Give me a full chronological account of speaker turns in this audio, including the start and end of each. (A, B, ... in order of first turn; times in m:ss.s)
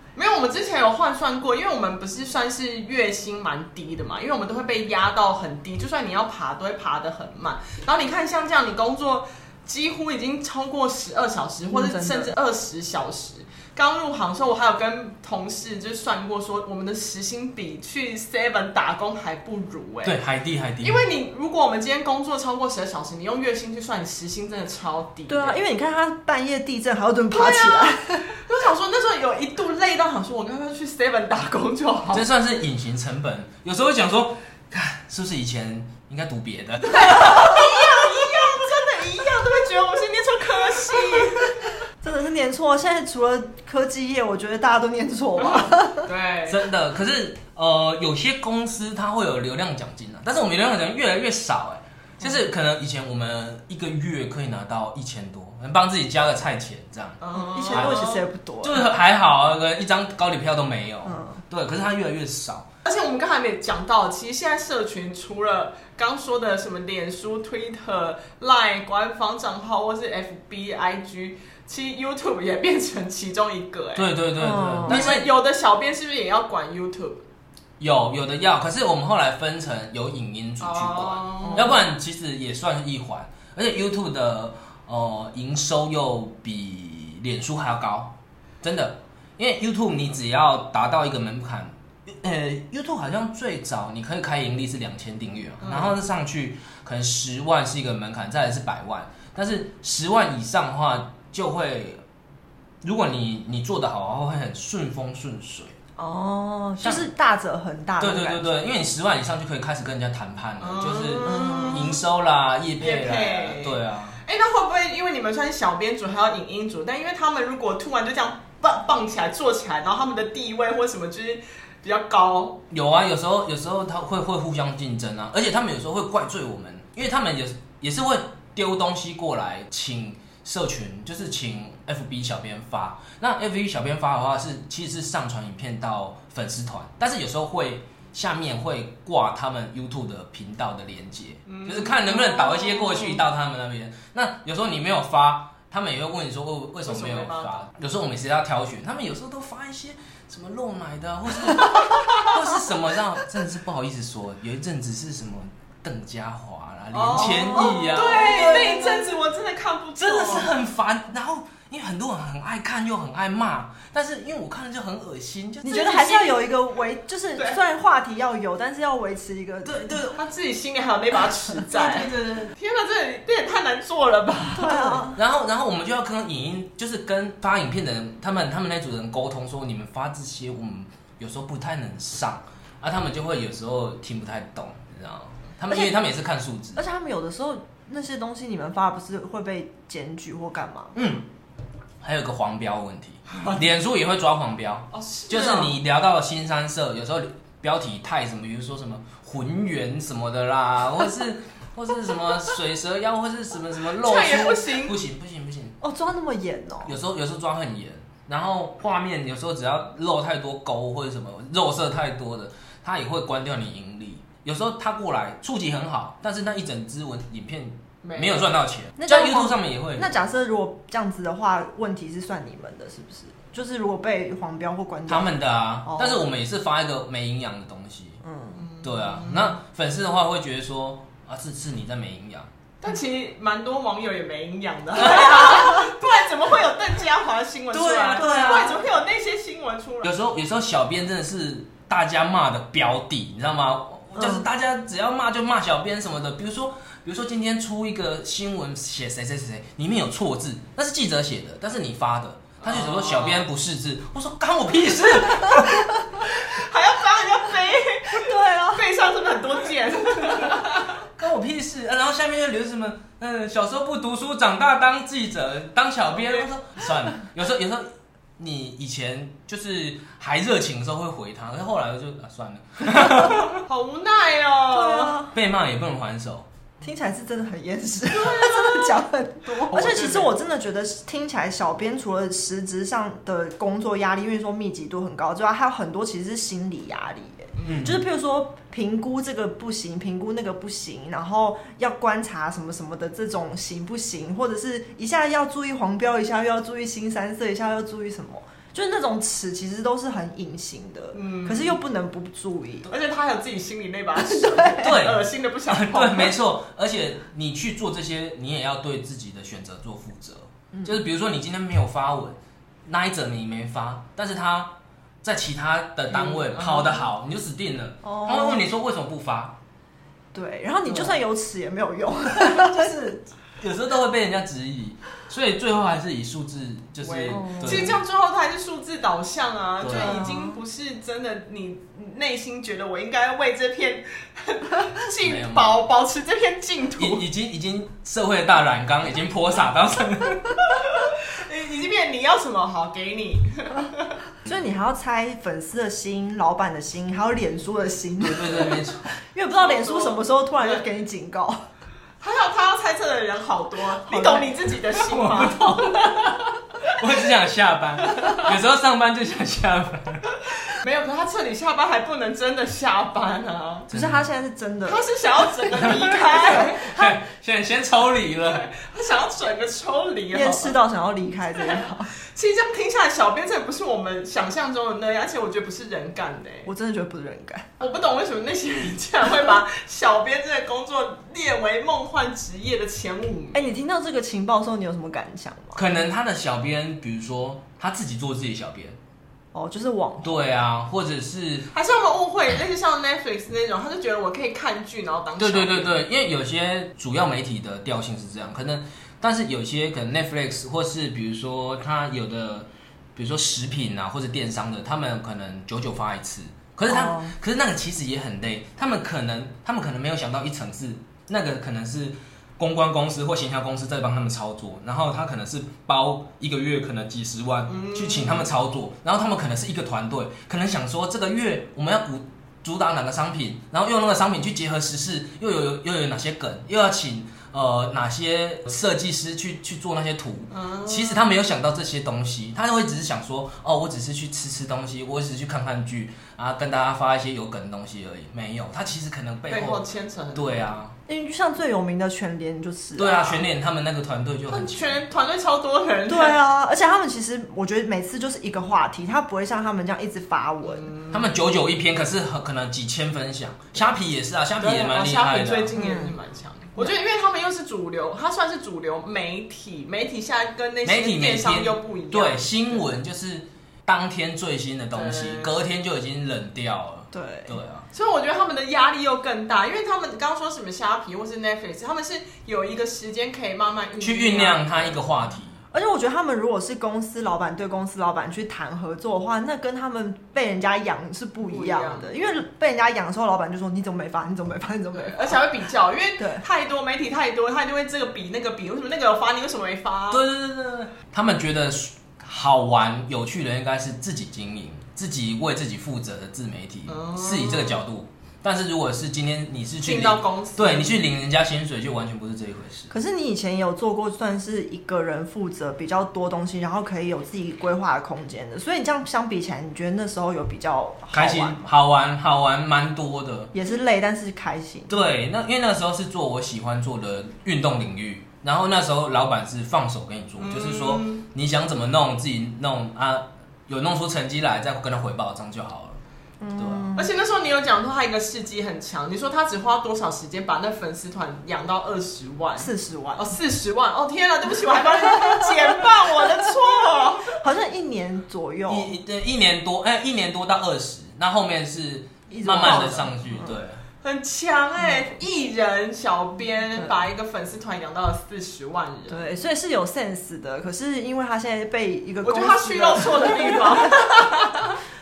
0:00.2-0:20.2 A
0:11.7-0:12.3 B
0:20.0-0:21.0 C
0:20.8-0:25.6 A
0:25.3-0:28.4 B
0:27.3-0:32.3 A
0:32.1-0:37.8 C
0:36.9-0:41.7 A
0:42.0-0:46.1 B
0:45.4-0:46.6 A
0:46.5-0:58.1 C
0:57.2-0:58.2 A
0:57.4-0:58.8 B
0:58.6-1:02.7 C
1:01.0-1:01.4 B
1:02.8-1:14.1 A
1:14.0-1:15.3 C
1:14.4-1:15.2 B
1:14.9-1:17.2 A
1:17.8-1:42.0 C
1:20.6-1:21.8 A
1:35.6-1:36.0 A
1:42.8-1:45.8 C
1:46.0-1:48.7 B
1:46.8-1:47.1 C
1:48.0-1:54.2 C
1:50.6-1:52.0 A
1:51.2-1:51.9 B
1:52.8-2:02.6 A
2:02.7-2:39.0 C
2:21.5-2:23.0 A
2:26.8-2:27.6 A
2:36.9-2:40.5 A
2:37.2-2:38.9 B
2:40.0-2:46.3 C
2:45.6-2:49.9 B
2:49.6-2:50.2 C
2:50.1-2:55.0 A
2:51.7-2:52.6 C
2:54.6-2:55.2 B
2:55.1-3:06.8 C
3:05.7-3:06.0 B
3:06.8-3:11.0 B
3:11.0-3:11.2 C
3:12.0-3:25.8 C
3:14.9-3:15.7 A
3:24.0-3:25.0 A
3:25.8-3:27.0 B
3:26.8-3:40.1 C
3:38.0-3:38.5 A
3:39.0-3:45.3 B
3:45.1-3:48.2 C
3:45.8-3:46.2 B
3:48.2-3:48.6 B
3:48.6-3:49.6 A
3:48.8-3:52.5 C
3:52.8-4:00.2 A
3:57.7-3:58.8 C
3:58.1-3:58.8 B
4:00.0-4:16.0 C
4:12.6-4:13.4 A
4:16.2-4:21.0 A
4:18.1-4:18.9 B
4:21.2-4:33.6 C
4:26.2-4:26.5 A
4:33.7-4:35.2 A
4:34.7-4:35.3 B
4:35.3-4:36.5 C
4:36.8-5:02.9 B
4:38.1-4:39.0 A
4:39.6-4:40.3 A
4:47.6-4:48.0 C
5:01.1-5:01.8 A
5:02.9-5:06.3 A
5:04.2-5:04.9 B
5:04.8-5:19.6 C
5:16.2-5:17.0 A
5:18.0-5:18.6 B
5:20.3-5:23.2 B
5:20.9-5:21.2 C
5:22.3-5:28.0 C
5:27.0-5:37.2 A
5:27.3-5:27.9 B
5:29.8-5:30.2 C
5:29.9-5:30.6 B
5:35.2-5:35.8 C
5:37.0-5:40.8 C
5:40.8-5:44.2 A
5:44.5-5:51.6 B
5:48.2-5:49.1 C
5:49.5-5:50.8 A
5:52.2-5:57.1 A
5:54.1-5:54.5 B
5:55.1-5:56.3 C
5:57.0-6:00.3 C
6:00.7-6:03.9 A
6:03.9-6:04.2 C
6:03.9-6:05.0 B
6:04.9-6:06.9 A
6:05.8-6:08.6 C
6:06.6-6:07.0 B
6:08.4-6:10.8 A
6:10.3-6:12.1 B
6:11.6-6:16.7 A
6:16.7-6:17.7 B
6:17.8-6:23.7 A
6:23.5-6:25.8 B
6:25.8-6:29.0 C
6:29.5-6:30.5 B
6:30.2-6:31.7 C
6:31.7-6:36.0 A
6:35.4-7:19.8 C
6:46.9-6:47.3 B
6:57.7-6:58.5 A
7:10.5-7:11.2 A
7:19.5-7:20.7 A
7:20.4-7:21.0 C
7:21.1-7:23.4 B
7:23.0-7:25.0 C
7:24.5-7:26.4 A
7:26.1-7:30.9 B
7:30.6-7:31.3 A
7:31.1-7:35.8 C
7:34.6-7:42.8 A
7:35.8-7:36.2 B
7:40.8-7:47.9 C
7:44.9-7:45.6 A
7:47.1-7:47.6 B
7:47.9-7:55.0 A
7:54.0-7:55.6 C
7:55.7-8:05.4 B
8:01.4-8:02.2 A
8:04.9-8:10.2 A
8:10.1-8:22.9 C
8:16.9-8:17.8 A
8:19.8-8:21.0 A
8:22.9-8:31.7 B
8:31.1-8:33.5 C
8:33.5-8:35.0 B
8:34.9-8:46.0 C
8:40.4-8:41.2 A
8:46.4-8:47.1 B
8:46.6-8:46.9 C
8:47.0-8:57.4 A
8:52.6-8:53.3 B
8:57.3-8:58.9 B
8:58.7-9:03.8 C
9:02.3-9:03.6 B
9:02.6-9:03.0 A
9:04.0-9:09.2 A
9:09.1-9:14.3 B
9:12.2-9:14.8 A